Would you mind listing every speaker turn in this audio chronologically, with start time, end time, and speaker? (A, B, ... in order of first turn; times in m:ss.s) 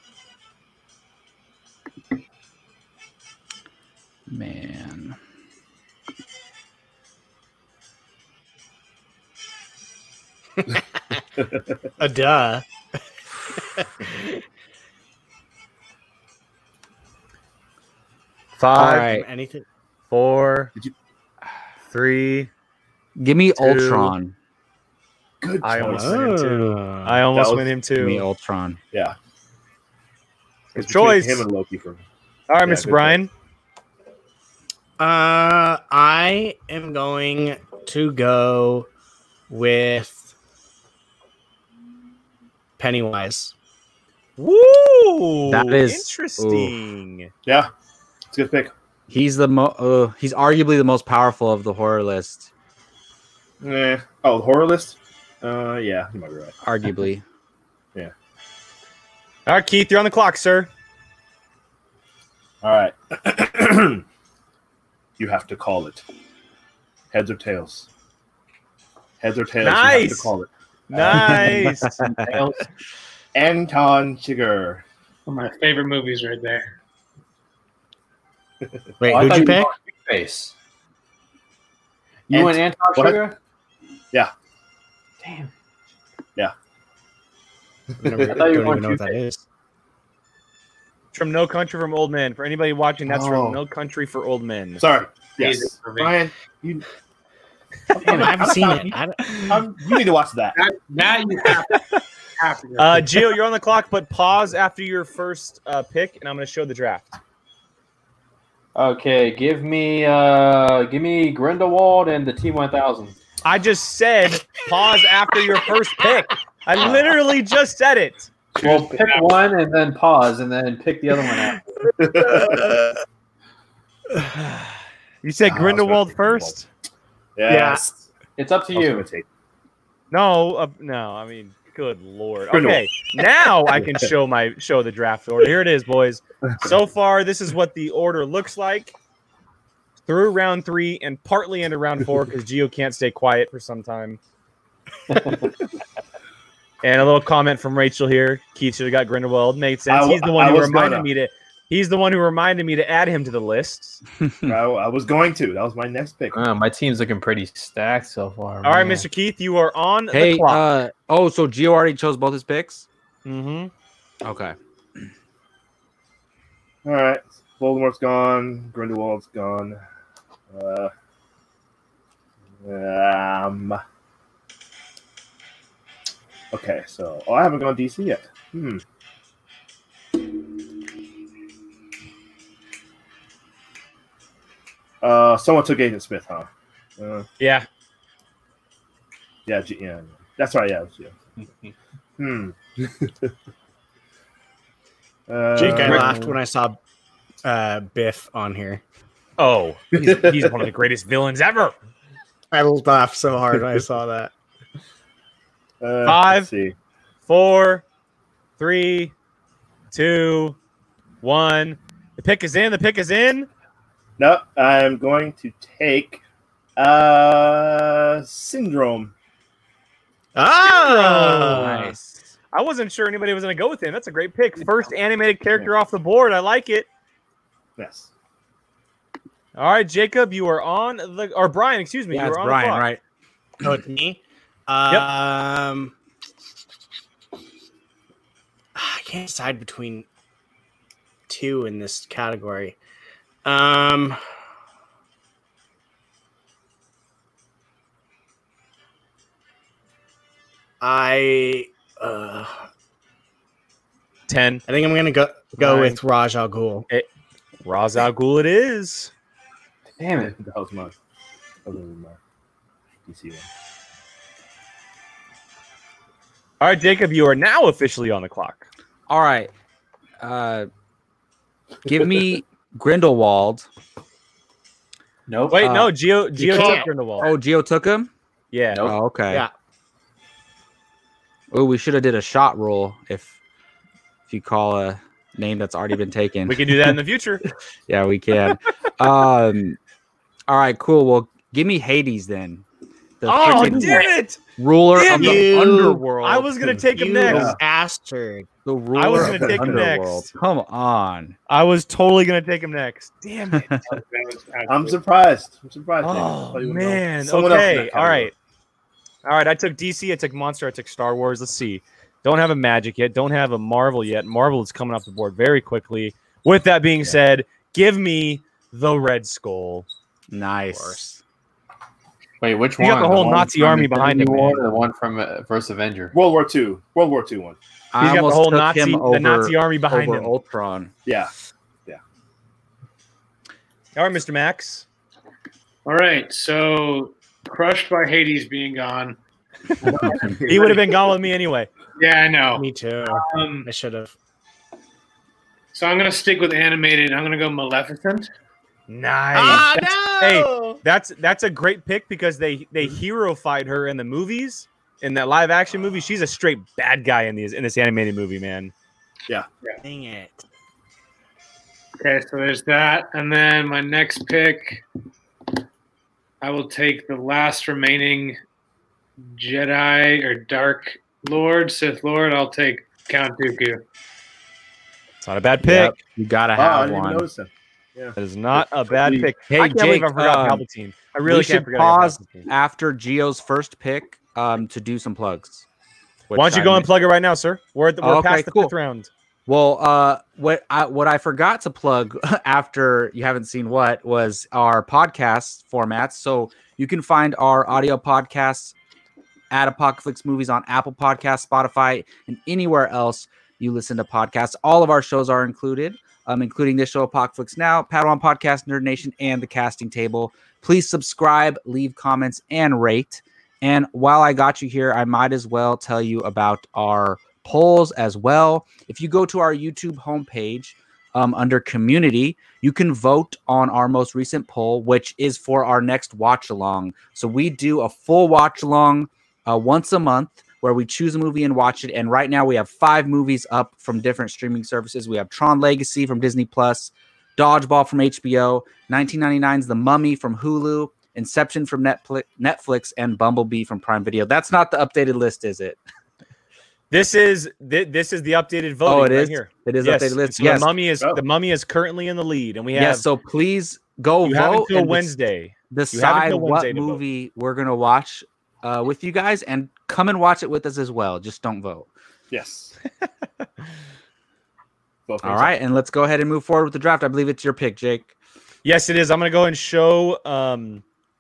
0:04.3-0:05.2 A
0:12.0-0:12.6 B
0:18.6-0:19.2 C
0:18.8-0:19.2 A
0:18.9-0:19.6 B
0:20.1-0:20.7 C
0:21.9-0:22.5 C
0:23.2-0:24.4 A
0:23.6-0:24.2 C
0:25.4-0:26.2 D
0:25.6-0:28.3 C
0:25.8-0:27.2 B
0:27.3-0:27.7 D
0:28.0-0:28.8 A
0:30.7-0:32.0 D
0:30.8-0:31.4 C
0:32.5-0:33.3 C
0:32.6-0:33.2 D
0:35.0-0:38.9 B
0:39.5-0:40.3 B
0:42.8-0:43.5 B
0:44.4-0:47.3 C
0:45.5-0:46.7 A
0:48.3-0:48.7 D
0:49.1-0:52.5 A
0:53.6-0:56.5 D
0:56.6-0:57.2 A
0:59.5-1:00.7 C
1:02.6-1:04.0 D
1:05.2-1:06.0 D
1:07.1-1:07.9 D
1:09.2-1:11.8 D
1:09.6-1:10.3 C
1:10.9-1:12.0 C
1:12.0-1:12.6 E
1:13.4-1:14.8 D
1:15.3-1:16.7 F
1:19.0-1:19.7 B
1:19.0-1:20.5 E
1:22.3-1:23.4 E
1:22.3-1:23.3 D
1:25.2-1:25.5 E
1:28.0-1:29.4 B
1:28.0-1:28.4 D
1:28.2-1:29.2 E
1:31.1-1:34.8 C
1:33.1-1:33.6 D
1:34.8-1:36.8 D
1:35.4-1:36.2 F
1:37.9-1:40.6 D
1:38.0-1:39.6 B
1:38.1-1:38.4 E
1:40.6-1:43.2 F
1:42.8-1:47.2 C
1:48.8-1:53.2 E
1:53.4-1:58.3 C
1:58.6-2:01.7 E
1:58.6-1:59.4 F
2:02.0-2:02.8 D
2:04.4-2:04.7 C
2:05.2-2:06.7 C
2:05.4-2:06.6 D
2:07.4-2:08.0 D
2:07.5-2:07.8 B
2:08.4-2:09.1 E
2:08.7-2:09.3 D
2:10.1-2:19.0 C
2:12.5-2:12.8 D
2:13.7-2:14.1 D
2:20.1-2:24.2 C
2:25.2-2:25.4 E
2:26.8-2:34.0 C
2:29.9-2:31.1 D
2:34.5-2:36.4 D
2:36.3-2:39.0 E
2:38.6-2:40.6 C
2:40.1-2:42.9 A
2:43.2-2:43.7 C
2:44.2-2:44.6 A
2:46.8-2:49.8 D
2:50.5-2:50.9 D
2:52.6-2:53.8 D
2:56.5-2:58.8 D
3:05.0-3:07.3 D
3:07.4-3:07.7 C
3:09.5-3:11.1 D
3:12.2-3:13.3 D
3:15.3-3:16.2 D
3:15.6-3:16.8 B
3:15.6-3:16.1 C
3:17.4-3:18.8 B
3:19.4-3:21.8 C
3:20.0-3:20.6 D
3:22.5-3:24.3 B
3:25.8-3:26.8 D
3:26.0-3:26.5 C
3:27.3-3:27.8 C
3:28.6-3:29.1 C
3:29.9-3:30.6 C
3:31.2-3:33.5 C
3:34.2-3:36.2 D
3:36.8-3:39.1 D
3:40.4-3:42.0 B
3:40.6-3:41.9 C
3:41.5-3:42.3 A
3:42.5-3:46.9 C
3:47.8-3:48.1 D
3:49.6-3:52.9 C
3:52.1-3:53.0 A
3:53.6-3:55.9 B
3:58.8-4:00.1 B
4:01.3-4:02.8 B
4:03.4-4:04.2 B
4:10.8-4:12.7 B
4:14.3-4:14.6 C
4:14.7-4:16.9 B
4:15.6-4:16.0 C
4:17.6-4:19.1 C
4:20.0-4:20.3 E
4:20.2-4:20.9 D
4:21.6-4:22.2 D
4:23.1-4:23.5 D
4:26.6-4:28.7 C
4:29.1-4:29.5 A
4:30.2-4:30.7 A
4:31.8-4:33.7 A
4:35.3-4:35.7 E
4:35.5-4:37.3 C
4:35.6-4:38.1 A
4:36.4-4:36.9 B
4:38.5-4:38.9 C
4:38.8-4:39.4 A
4:41.5-4:43.3 A
4:44.3-4:46.8 A
4:46.5-4:47.4 C
4:47.9-4:49.8 A
4:50.5-4:52.6 A
4:53.2-4:56.0 A
4:53.3-4:54.4 C
4:55.0-4:57.6 C
4:55.1-4:58.5 B
4:57.3-4:57.6 D
4:58.6-5:01.4 A
4:59.0-5:00.3 C
4:59.2-4:59.8 D
5:01.5-5:03.7 C
5:03.9-5:05.0 F
5:04.7-5:08.3 D
5:06.0-5:08.3 C
5:09.2-5:19.9 C
5:20.3-5:21.2 A
5:22.4-5:26.1 E
5:22.8-5:24.6 C
5:26.1-5:27.6 D
5:27.9-5:30.9 A
5:28.0-5:30.3 C
5:34.0-5:34.9 C
5:35.8-5:39.2 F
5:39.8-5:40.9 D
5:40.1-5:40.4 A
5:40.5-5:41.7 C
5:42.0-5:43.7 F
5:42.6-5:44.2 B
5:45.7-5:48.3 F
5:48.9-5:58.7 C
5:49.3-5:50.8 B
5:59.8-6:00.4 B
6:02.0-6:04.8 F
6:06.4-6:08.4 F
6:09.2-6:13.8 F
6:15.2-6:16.0 C
6:15.6-6:17.3 A
6:16.6-6:19.3 D
6:18.2-6:22.5 C
6:19.5-6:20.6 A
6:21.2-6:25.7 A
6:26.3-6:26.9 A
6:26.4-6:29.1 C
6:28.0-6:28.7 A
6:29.5-6:38.8 A
6:39.5-7:25.8 A
7:26.9-7:33.0 C
7:28.9-7:30.7 A
7:32.7-7:35.1 A
7:34.2-7:37.0 C
7:35.7-7:41.9 A
7:42.3-7:42.8 D
7:45.1-7:45.5 D
7:45.2-7:48.1 A
7:48.6-7:50.8 C